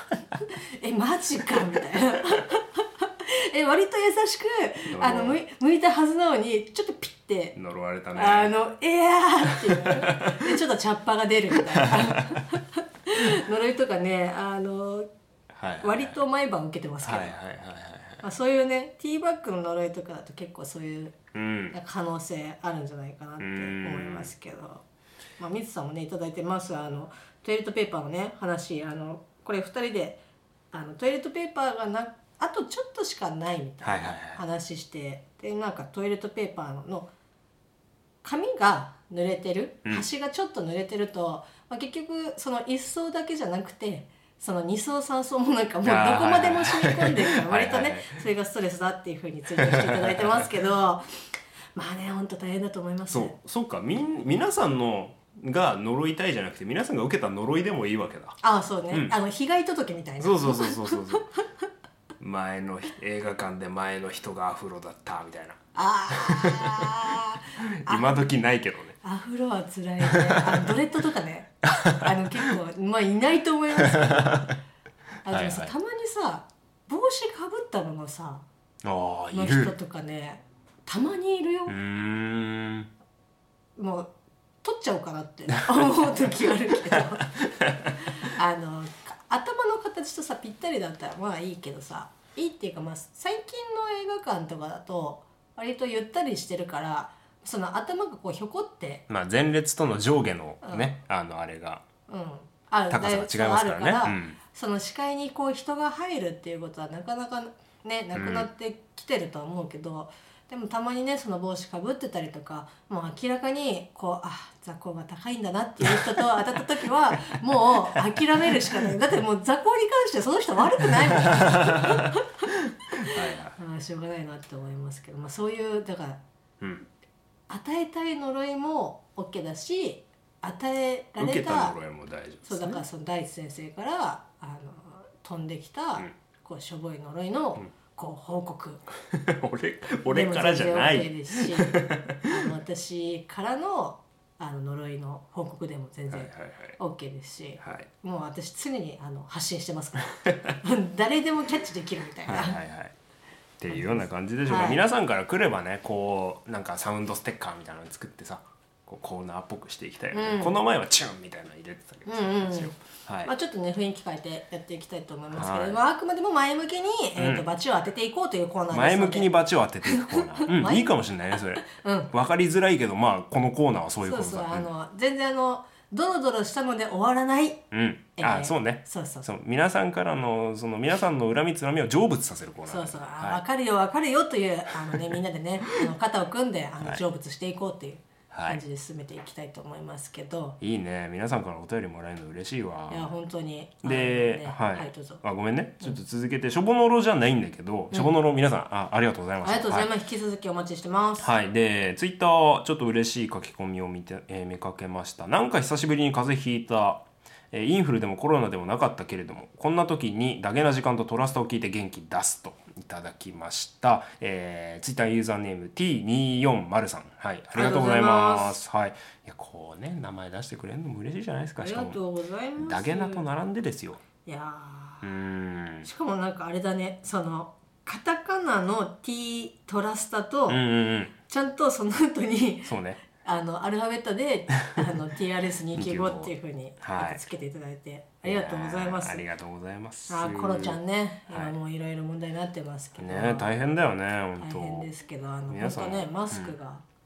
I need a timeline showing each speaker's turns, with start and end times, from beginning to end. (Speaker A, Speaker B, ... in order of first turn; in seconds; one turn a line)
Speaker A: 0.4-7.6
Speaker B: 4.9-5.4
Speaker B: 7.5-8.5
Speaker A: 8.1-15.1
Speaker B: 9.6-10.4
Speaker B: 11.7-12.4
Speaker B: 15.5-16.2
Speaker A: 15.8-17.4
Speaker B: 17.0-18.2
Speaker A: 18.2-21.2
Speaker B: 21.3-21.8
Speaker A: 21.7-24.8
Speaker B: 23.4-24.3
Speaker A: 25.4-37.1
Speaker B: 33.8-34.4
Speaker A: 38.2-51.0
Speaker B: 45.8-48.2
Speaker B: 49.6-50.5
Speaker A: 51.7-53.4
Speaker B: 53.1-58.4
Speaker A: 58.4-61.2
Speaker B: 58.9-59.1
Speaker B: 60.2-61.2
Speaker B: 62.2-67.0
Speaker A: 65.7-68.2
Speaker B: 67.5-69.0
Speaker A: 69.0-74.5
Speaker B: 70.1-70.5
Speaker B: 71.7-72.1
Speaker B: 73.8-74.5
Speaker A: 75.2-78.4
Speaker B: 75.3-75.7
Speaker B: 78.8-79.7
Speaker A: 79.3-81.8
Speaker B: 81.7-82.9
Speaker A: 83.8-84.1
Speaker A: 84.6-87.3
Speaker B: 86.9-87.9
Speaker A: 88.1-99.0
Speaker B: 99.1-101.8
Speaker A: 100.6-100.9
Speaker A: 102.1-126.2
Speaker B: 102.9-104.4
Speaker B: 108.1-108.5
Speaker B: 115.8-116.2
Speaker B: 118.0-118.2
Speaker B: 121.2-122.1
Speaker B: 123.0-123.6
Speaker A: 127.5-131.8
Speaker B: 131.2-132.8
Speaker A: 132.4-138.8
Speaker B: 139.1-142.4
Speaker A: 140.1-152.6
Speaker B: 146.1-146.8
Speaker B: 147.6-147.9
Speaker B: 152.2-152.9
Speaker B: 153.6-163.3
Speaker A: 153.7-154.8
Speaker A: 160.1-160.6
Speaker A: 162.1-169.3
Speaker B: 165.3-165.8
Speaker B: 167.2-167.4
Speaker B: 168.7-174.7
Speaker A: 169.8-170.9
Speaker A: 171.6-172.1
Speaker A: 174.0-177.6
Speaker B: 177.7-183.4
Speaker A: 178.2-179.3
Speaker A: 182.7-190.6
Speaker B: 188.3-188.6
Speaker B: 190.6-193.1
Speaker A: 192.9-195.2
Speaker B: 193.8-199.9
Speaker A: 199.4-201.3
Speaker B: 201.2-222.0
Speaker A: 217.5-218.6
Speaker A: 221.6-223.2
Speaker B: 222.6-224.0
Speaker A: 224.2-225.1
Speaker B: 225.0-225.9
Speaker A: 225.8-230.6
Speaker B: 230.5-231.1
Speaker A: 231.3-239.2
Speaker B: 232.6-233.0
Speaker B: 235.7-237.2
Speaker B: 238.2-240.8
Speaker A: 240.1-243.5
Speaker B: 241.3-241.5
Speaker B: 243.0-244.9
Speaker A: 244.4-246.8
Speaker B: 245.5-246.5